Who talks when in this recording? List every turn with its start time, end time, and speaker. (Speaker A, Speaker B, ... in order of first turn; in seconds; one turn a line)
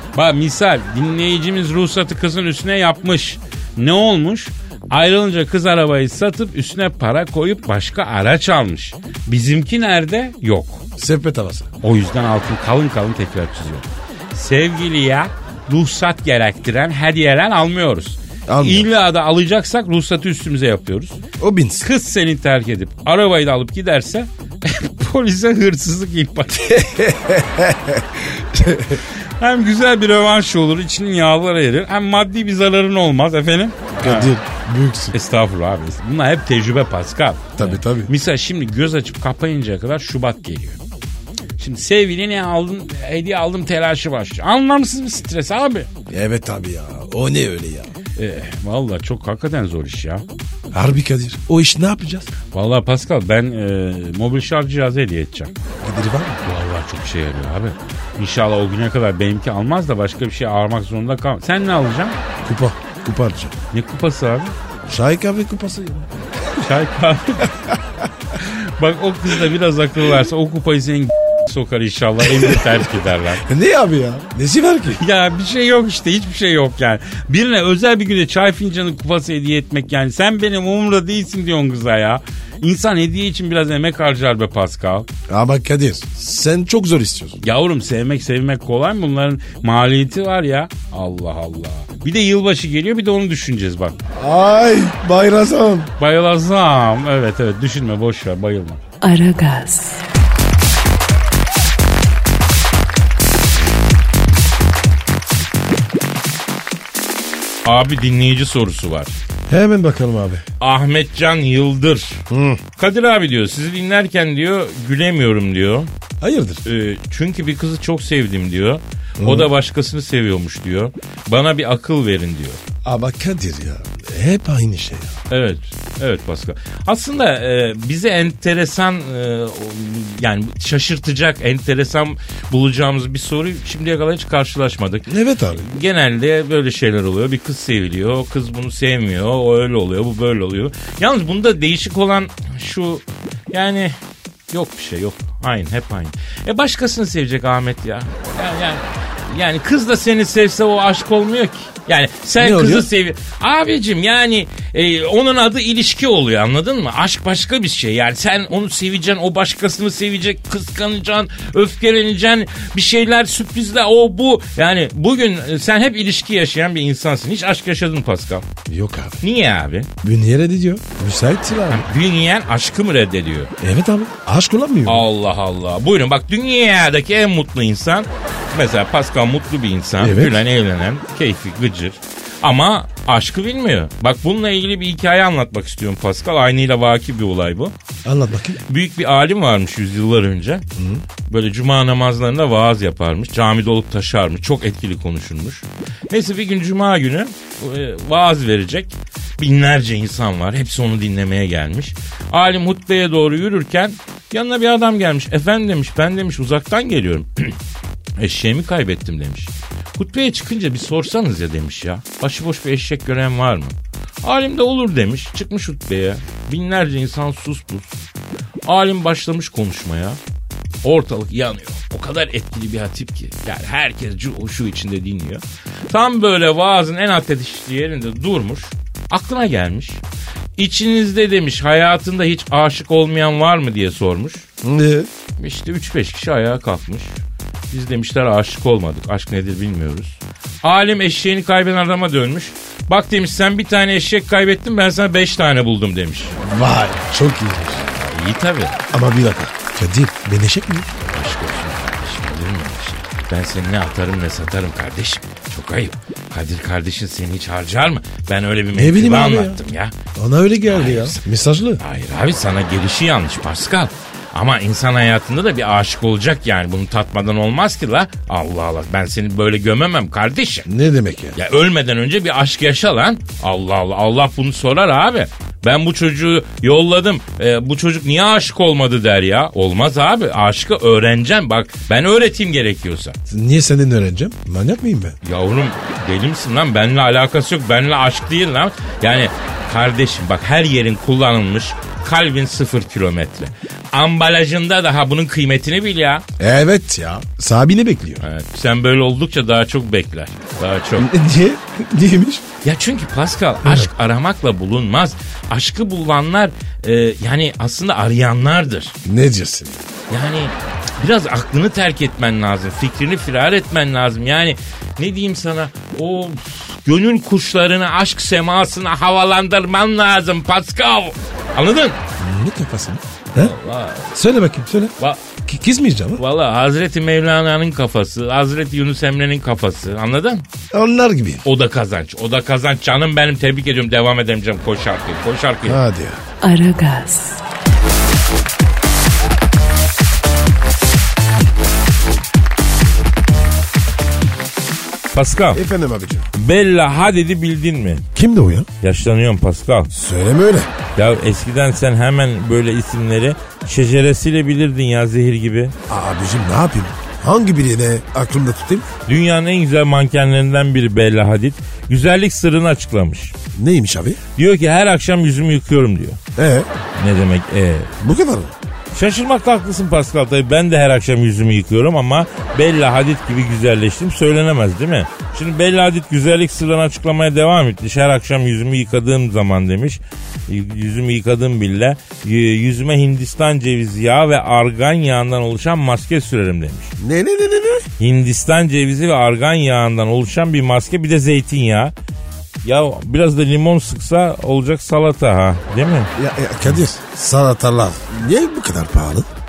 Speaker A: 0.1-10.8
Speaker B: 11.0-11.7
Speaker A: 11.8-21.2
Speaker B: 18.5-18.9
Speaker B: 21.4-21.9
Speaker A: 21.8-26.8
Speaker B: 26.6-29.0
Speaker A: 29.4-34.3
Speaker B: 34.0-35.1
Speaker A: 35.1-40.8
Speaker B: 37.6-38.1
Speaker A: 41.6-45.9
Speaker B: 46.1-47.9
Speaker A: 48.1-50.2
Speaker B: 50.7-52.3
Speaker A: 52.5-55.5
Speaker B: 55.8-56.5
Speaker A: 56.4-62.2
Speaker B: 62.4-63.6
Speaker A: 63.7-64.5
Speaker B: 64.8-66.6
Speaker A: 66.6-67.5
Speaker A: 68.3-73.4
Speaker B: 72.2-72.9
Speaker B: 73.4-75.0
Speaker A: 74.9-85.1
Speaker B: 85.3-87.4
Speaker A: 87.4-93.9
Speaker B: 94.1-95.9
Speaker A: 96.0-98.8
Speaker C: 99.0-100.0
Speaker D: 107.6-109.1
Speaker B: 109.5-110.4
Speaker D: 110.6-112.2
Speaker B: 112.3-112.6
Speaker D: 112.8-115.9
Speaker B: 116.2-116.6
Speaker D: 116.6-122.6
Speaker B: 119.2-119.5
Speaker B: 122.8-125.2
Speaker D: 125.3-143.9
Speaker B: 135.1-135.6
Speaker D: 144.5-168.4
Speaker B: 152.4-152.9
Speaker B: 168.7-169.2
Speaker D: 169.2-169.9
Speaker B: 170.0-171.9
Speaker D: 171.7-173.5
Speaker B: 173.6-175.1
Speaker D: 174.8-187.7
Speaker B: 180.0-180.4
Speaker B: 188.0-188.6
Speaker D: 188.7-190.6
Speaker B: 190.8-191.0
Speaker D: 191.3-207.6
Speaker D: 208.2-217.9
Speaker D: 218.7-220.2
Speaker D: 220.8-230.0
Speaker D: 230.6-234.4
Speaker B: 234.6-235.1
Speaker D: 235.4-237.1
Speaker D: 237.7-246.3
Speaker B: 246.4-247.8
Speaker D: 247.7-248.8
Speaker B: 248.9-250.9
Speaker D: 251.0-259.9
Speaker B: 258.7-259.6
Speaker B: 260.1-261.8
Speaker D: 260.7-261.2
Speaker D: 261.8-270.7
Speaker B: 270.7-271.4
Speaker D: 271.3-283.1
Speaker B: 283.3-285.2
Speaker D: 285.2-296.2
Speaker B: 296.4-298.2
Speaker D: 298.2-301.1
Speaker B: 301.0-302.4
Speaker D: 302.6-308.9
Speaker B: 303.6-303.9
Speaker B: 309.0-309.8
Speaker D: 310.1-322.0
Speaker B: 322.2-323.5
Speaker D: 323.4-324.1
Speaker B: 324.1-324.9
Speaker B: 325.4-326.2
Speaker D: 326.2-330.4
Speaker B: 330.7-331.4
Speaker D: 331.4-335.8
Speaker B: 335.6-336.2
Speaker C: 336.4-337.4
Speaker D: 345.1-345.6
Speaker B: 345.5-346.3
Speaker D: 346.3-348.1
Speaker B: 348.1-348.7
Speaker D: 348.8-349.9
Speaker B: 349.9-350.7
Speaker D: 350.9-355.7
Speaker B: 355.9-358.9
Speaker D: 359.1-363.3
Speaker B: 363.5-364.2
Speaker D: 364.4-366.2
Speaker B: 366.3-366.7
Speaker D: 367.0-367.9
Speaker B: 368.0-368.5
Speaker D: 368.9-386.9
Speaker B: 387.0-387.9
Speaker D: 388.0-391.9
Speaker D: 392.6-396.1
Speaker B: 396.1-399.3